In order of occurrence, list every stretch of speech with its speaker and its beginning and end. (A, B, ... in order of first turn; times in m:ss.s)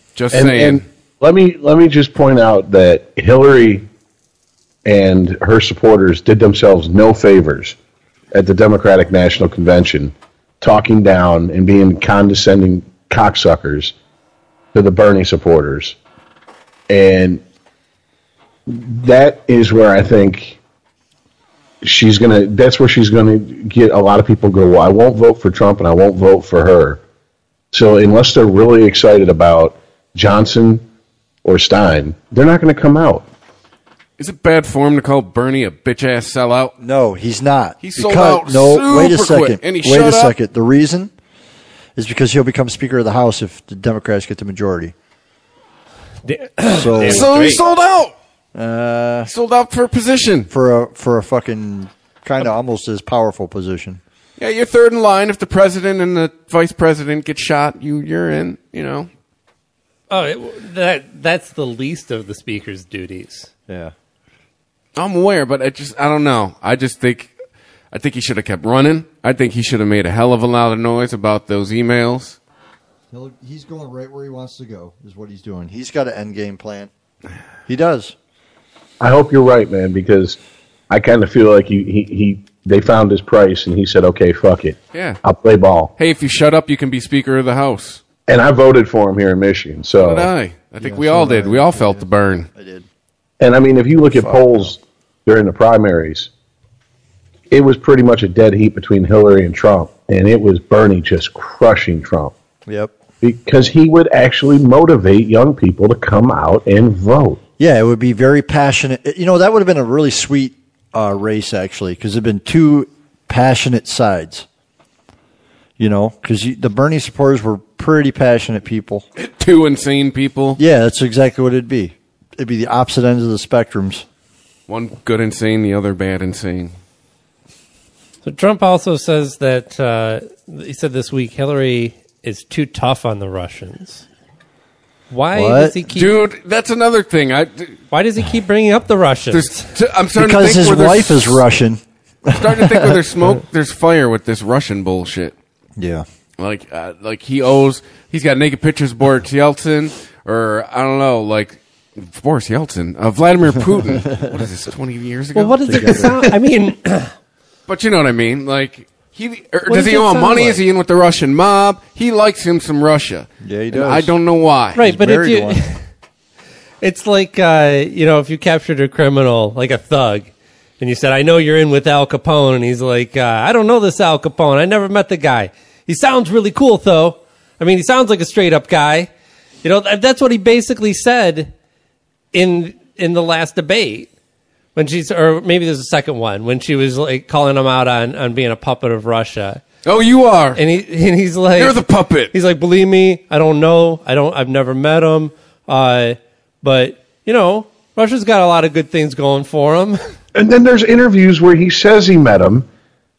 0:00.2-0:00.8 A
0:00.3-0:03.8 B
0:04.8-0:07.7 B
0:08.3-0:13.9 B
0:14.7-0:16.0 B
0:16.9-0:17.4 B
0:18.7-0:20.6 B
0:21.8-0:27.0 B
0:27.7-0:30.8 B
0:31.4-0:33.2 B
0:34.2-0:36.7 A
0:36.8-0:41.1 C
0:37.8-0:40.3 A
0:42.0-0:44.9 C
0:46.2-0:47.6 D
0:46.7-0:47.3 C
0:46.9-0:48.1 A
0:48.5-0:49.3 C
0:49.3-0:50.5 A
0:50.5-0:54.0 C
0:54.4-0:59.1 A
1:00.1-1:03.5 D
1:03.7-1:03.9 C
1:05.0-1:07.3 A
1:07.9-1:12.4 A
1:13.1-1:16.9 C
1:17.7-1:18.1 C
1:19.0-1:20.4 B
1:20.9-1:25.9 B
1:24.9-1:25.2 A
1:26.0-1:28.0 A
1:28.3-1:30.3 B
1:30.0-1:32.5 A
1:30.8-1:32.8 C
1:33.4-1:36.3 B
1:34.1-1:34.7 C
1:37.5-1:42.3 B
1:42.6-1:43.0 C
1:43.2-1:47.4 B
1:47.6-1:54.5 C
1:55.8-1:59.0 C
1:59.2-2:00.6 A
2:00.6-2:04.0 C
2:04.7-2:06.7 A
2:08.2-2:14.0 D
2:15.1-2:16.2 D
2:15.3-2:15.8 C
2:15.9-2:17.8 A
2:17.9-2:19.7 D
2:19.3-2:21.4 A
2:20.1-2:23.0 C
2:22.3-2:25.3 A
2:25.8-2:26.0 C
2:26.4-2:36.2 A
2:35.3-2:37.1 D
2:35.6-2:36.2 C
2:37.7-2:44.8 A
2:39.7-2:40.6 D
2:43.4-2:44.1 C
2:44.7-2:45.8 D
2:44.7-2:45.6 C
2:46.8-2:59.1 D
2:59.6-3:01.5 D
3:02.3-3:04.1 D
3:04.7-3:09.6 D
3:09.8-3:10.6 A
3:10.6-3:11.8 D
3:11.6-3:12.3 A
3:12.3-3:20.0 D
3:20.3-3:22.6 B